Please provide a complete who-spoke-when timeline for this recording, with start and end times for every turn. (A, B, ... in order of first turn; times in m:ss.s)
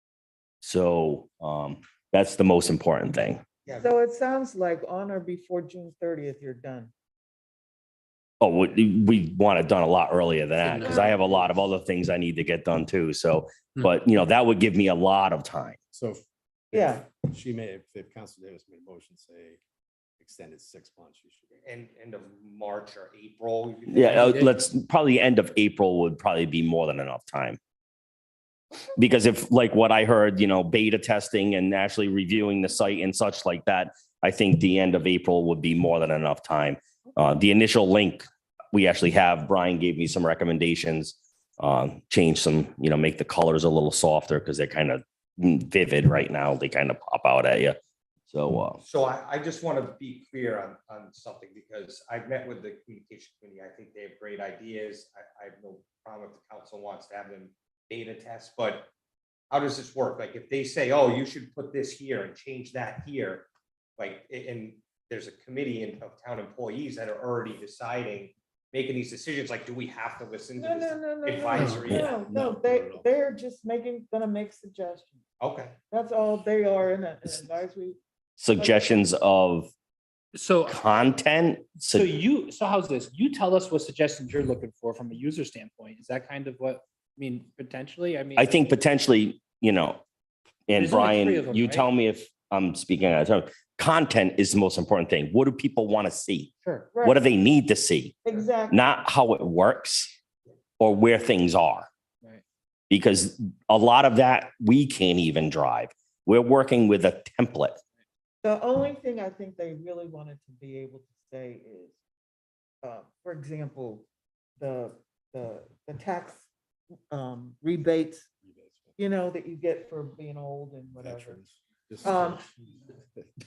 0:00.6-0:03.4 A
0:03.8-0:06.9 B
0:08.4-0:15.8 A
0:10.8-0:11.6 B
0:15.9-0:19.6 C
0:16.7-0:17.1 B
0:20.2-0:21.6 C
0:21.6-0:24.4 D
0:23.9-0:27.6 A
0:24.1-0:24.5 E
0:29.0-0:47.8 A
0:48.3-0:48.8 A
0:48.8-0:58.9 D
0:59.5-1:12.3 D
1:10.6-1:15.2 B
1:11.6-1:13.0 C
1:15.4-1:15.8 D
1:15.9-1:18.0 B
1:18.4-1:19.7 A
1:18.6-1:18.9 B
1:20.3-1:20.8 E
1:20.6-1:22.1 A
1:21.8-1:28.6 E
1:28.4-1:30.0 A
1:30.7-1:38.2 A
1:30.8-1:31.9 E
1:36.6-1:36.9 E
1:36.9-1:37.2 B
1:38.2-1:38.8 B
1:38.7-1:40.1 A
1:40.8-1:41.9 A
1:42.9-1:47.8 A
1:48.4-1:52.0 B
1:52.8-1:54.1 B
1:54.6-1:56.5 B
1:57.1-1:58.3 B
1:58.4-1:59.0 C
1:59.0-2:01.4 B
2:01.0-2:03.3 C
2:02.0-2:02.4 B